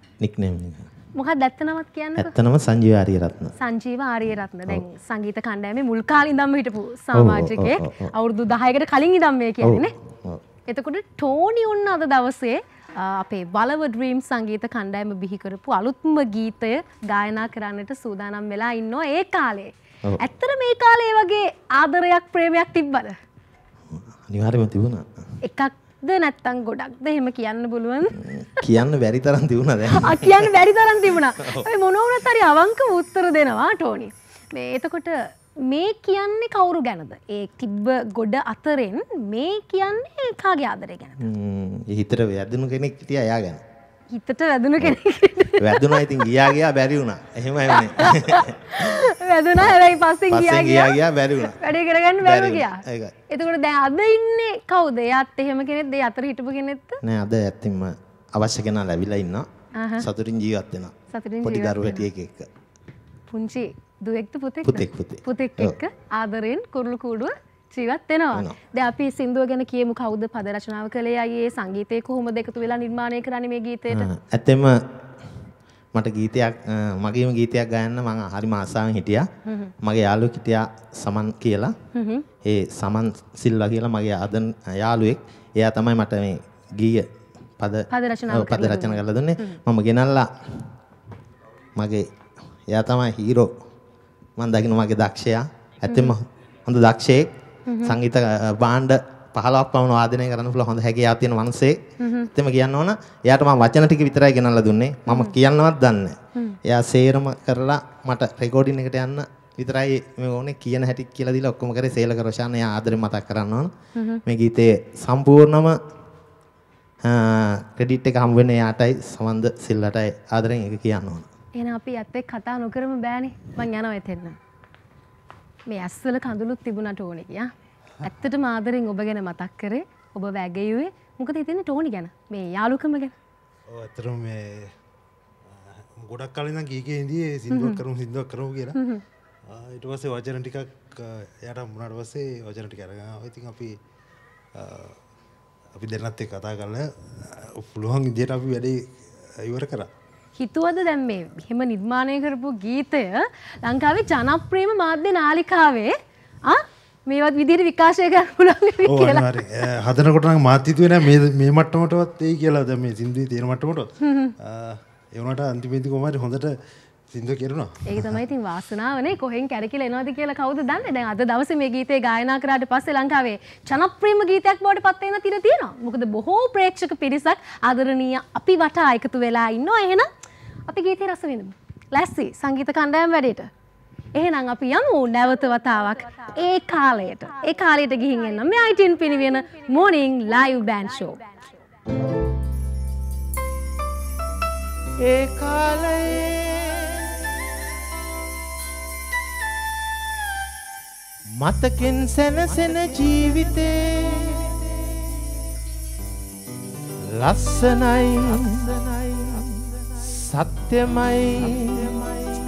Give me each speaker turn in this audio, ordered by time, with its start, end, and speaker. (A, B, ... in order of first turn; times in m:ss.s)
0:00.2-0:00.9 A
0:01.2-0:02.3 B
0:02.2-0:03.5 A
0:03.6-0:09.9 B
0:07.1-0:08.1 A
0:09.6-0:10.4 A
0:10.7-0:23.2 B
0:23.9-0:25.1 A
0:25.4-0:28.2 B
0:28.3-0:30.5 A
0:29.9-0:41.2 B
0:41.2-0:43.6 A
0:44.1-0:46.3 B
0:45.6-0:48.6 A
0:47.7-0:57.0 B
0:50.3-0:51.6 A
0:52.2-0:53.1 A
0:57.0-0:59.5 A
0:59.8-1:00.0 B
1:00.0-1:02.5 A
1:01.1-1:02.1 B
1:03.3-1:14.1 B
1:04.6-1:05.8 A
1:13.9-1:14.8 A
1:15.9-1:19.3 A
1:19.8-1:21.7 A
1:21.9-1:22.2 B
1:22.4-1:27.1 A
1:27.6-1:30.7 A
1:27.9-1:29.6 B
1:31.8-1:32.0 A
1:32.7-1:33.5 A
1:34.4-1:37.3 A
1:35.9-1:36.2 B
1:37.7-1:38.0 B
1:37.8-1:41.8 A
1:42.0-1:42.3 B
1:42.3-1:53.7 A
1:45.1-1:45.4 B
1:54.0-1:54.2 B
1:54.2-1:55.8 A
1:57.0-2:01.3 A
2:01.6-2:04.4 B
2:05.7-2:07.5 B
2:08.0-2:13.1 B
2:13.7-2:14.7 C
2:16.0-2:18.8 C
2:17.5-2:17.8 B
2:18.8-2:19.0 B
2:19.5-2:23.8 C
2:24.5-2:25.0 C
2:25.8-2:29.9 C
2:30.4-2:35.9 B
2:36.5-2:39.3 B
2:38.8-2:43.9 C
2:44.0-2:44.3 B
2:44.4-2:46.6 C
2:47.1-2:48.1 C
2:47.9-3:00.1 B
3:00.7-3:03.5 B
3:04.1-3:11.4 B
3:15.0-3:16.8 D
3:21.4-3:24.4 D
3:27.2-3:29.4 D
3:30.2-3:32.1 D